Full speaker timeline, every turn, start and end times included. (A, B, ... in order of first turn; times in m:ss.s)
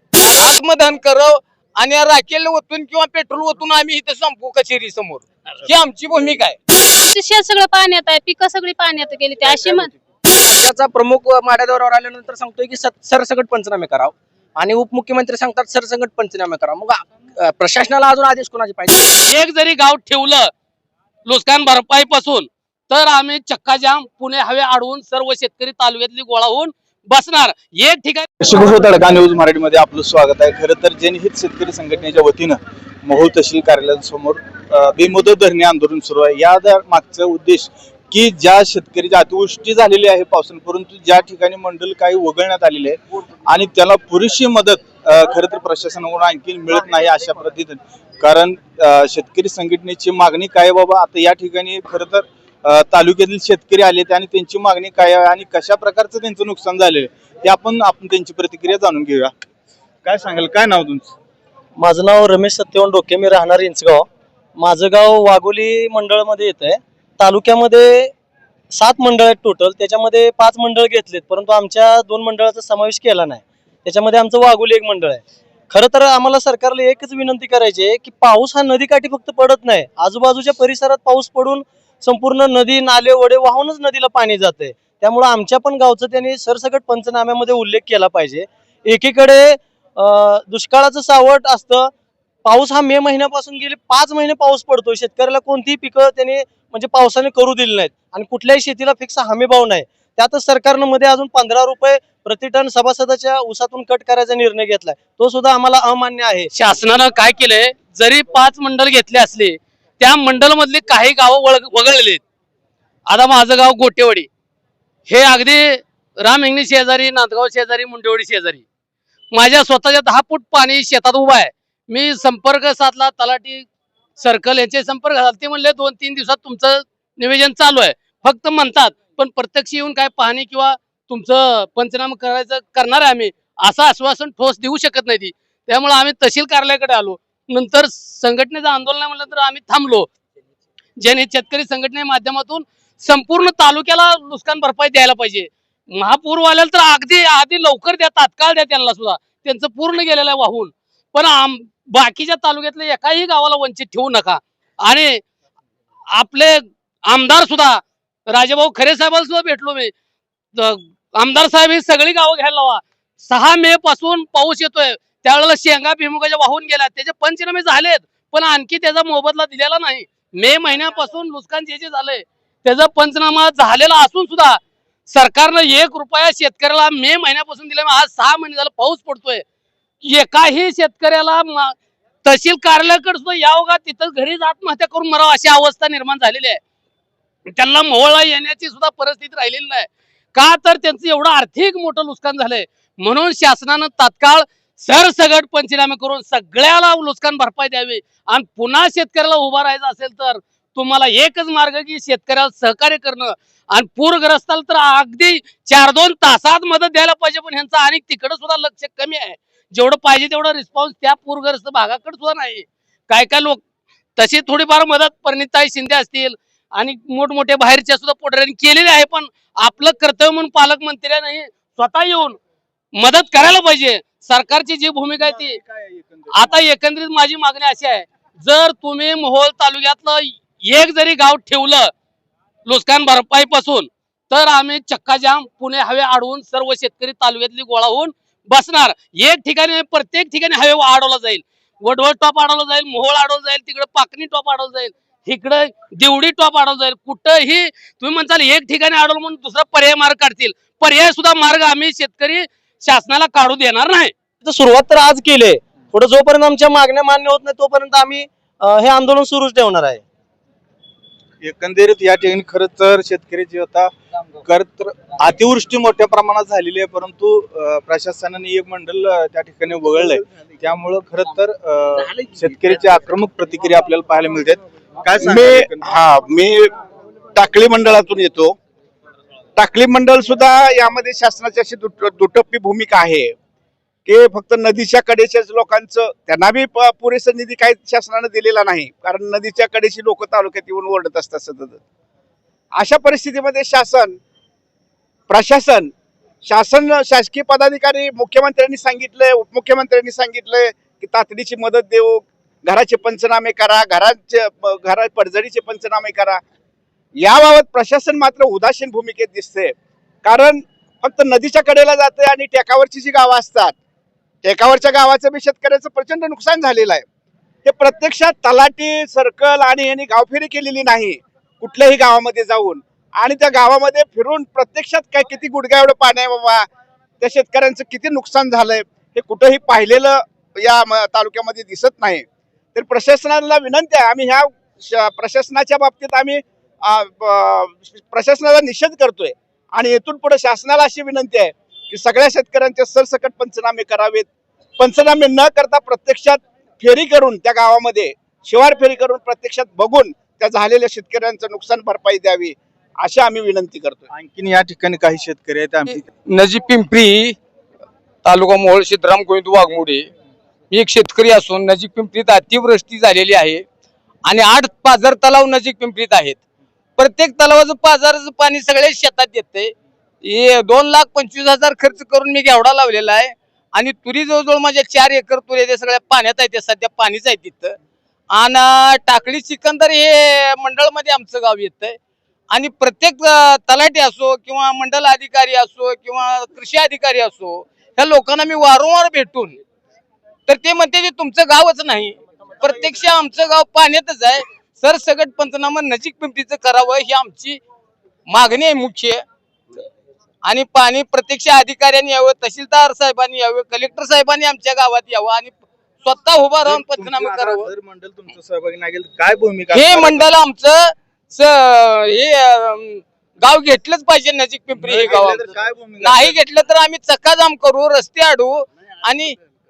0:00.2-0:06.6 A
0:06.9-0:09.9 B
0:10.3-0:19.3 C
0:19.3-0:20.5 D
0:21.2-0:28.3 D
0:28.4-0:59.3 E
1:00.0-1:01.1 E
1:01.8-1:08.1 F
1:08.7-1:31.9 F
1:32.4-1:46.5 F
1:46.5-1:52.2 D
1:53.1-1:54.3 D
1:55.1-1:58.6 D
1:59.3-2:03.7 D
2:04.2-2:20.1 D
2:21.0-2:35.2 D
2:36.2-2:39.9 D
2:40.5-2:59.4 D
3:00.0-3:06.6 D
3:07.5-3:33.6 D
3:34.2-3:42.4 D
3:43.0-3:45.6 D
3:45.1-3:46.7 E
3:46.3-3:51.9 D
3:52.6-4:14.1 D
4:14.4-4:20.0 F
4:21.4-4:23.9 E
4:24.4-4:35.9 E
4:35.2-4:36.7 G
4:37.3-4:38.6 G
4:39.6-4:43.3 G
4:44.0-4:51.8 G
4:52.7-4:54.2 G
4:55.3-4:55.9 G
4:56.4-5:06.4 G
5:07.2-5:13.7 G
5:14.4-5:17.0 G
5:17.6-5:26.7 G
5:27.2-5:54.1 G
5:54.1-5:56.0 E
5:55.9-5:57.4 A
5:58.2-6:00.1 A
6:00.7-6:03.6 A
6:04.2-6:06.4 A
6:07.0-6:17.8 A
6:18.3-6:22.0 A
6:22.5-6:29.6 A
6:30.5-6:37.6 A
6:38.3-6:39.2 A
6:40.4-6:47.7 A
6:46.6-6:50.3 E
6:49.7-6:59.4 A
6:54.8-6:56.4 E